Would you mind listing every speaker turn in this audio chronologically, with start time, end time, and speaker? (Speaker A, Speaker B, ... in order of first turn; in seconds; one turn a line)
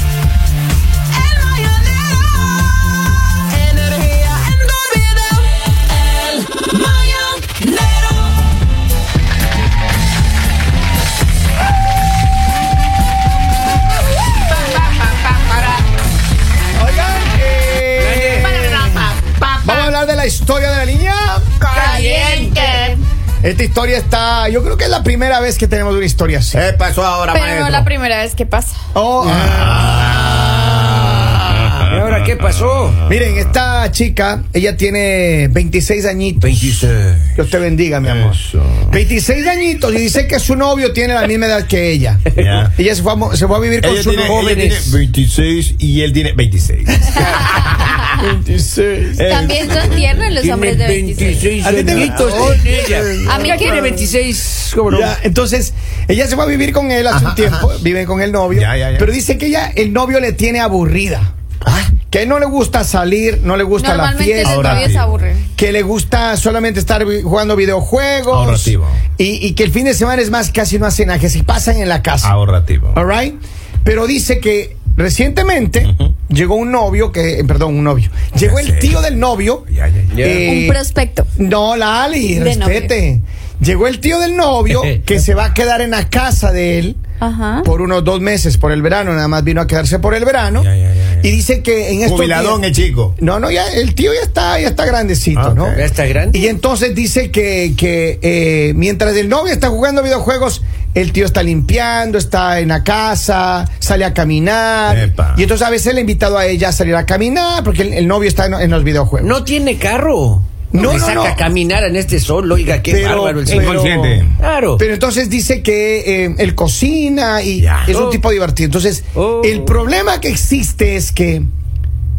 Speaker A: 3.8-5.3
Speaker A: 7.2-7.6
Speaker A: 14.9-15.8
Speaker B: 16.8-19.1
Speaker A: 18.0-18.5
Speaker C: 18.4-19.9
Speaker B: 19.6-21.5
Speaker A: 21.6-22.8
Speaker C: 21.7-23.0
Speaker B: 22.8-26.7
Speaker D: 26.5-27.9
Speaker C: 27.3-28.8
Speaker B: 28.9-31.7
Speaker D: 29.3-33.0
Speaker A: 31.9-33.0
Speaker B: 33.1-44.4
Speaker D: 36.5-37.4
Speaker D: 38.0-38.9
Speaker D: 42.3-42.7
Speaker D: 43.8-48.2
Speaker A: 44.2-45.0
Speaker B: 48.2-49.2
Speaker D: 49.2-50.2
Speaker C: 49.2-51.5
Speaker A: 50.4-55.1
Speaker B: 51.6-54.0
Speaker C: 53.2-53.9
Speaker B: 54.9-61.3
Speaker D: 57.1-57.8
Speaker D: 58.5-59.1
Speaker D: 61.6-62.0
Speaker B: 62.0-65.0
Speaker C: 63.8-65.5
Speaker D: 64.4-65.2
Speaker B: 65.5-72.3
Speaker D: 68.3-69.0
Speaker D: 72.2-73.0
Speaker B: 72.9-79.7
Speaker D: 75.8-76.1
Speaker D: 78.3-79.0
Speaker D: 79.7-80.1
Speaker A: 80.1-80.5
Speaker B: 80.2-80.8
Speaker C: 80.4-81.3
Speaker B: 81.4-87.0
Speaker C: 82.3-82.9
Speaker A: 84.7-85.0
Speaker C: 87.2-87.7
Speaker B: 87.6-90.7
Speaker D: 90.6-91.3
Speaker B: 91.2-95.8
Speaker D: 92.0-93.2
Speaker D: 95.3-95.8
Speaker A: 95.8-96.5
Speaker B: 96.3-109.4
Speaker D: 104.9-105.4
Speaker A: 109.2-113.9
Speaker B: 110.7-111.4
Speaker B: 112.9-114.3
Speaker D: 113.5-114.3
Speaker A: 114.4-114.8
Speaker B: 114.8-121.5
Speaker D: 117.6-117.9
Speaker A: 117.9-118.2
Speaker A: 119.2-119.8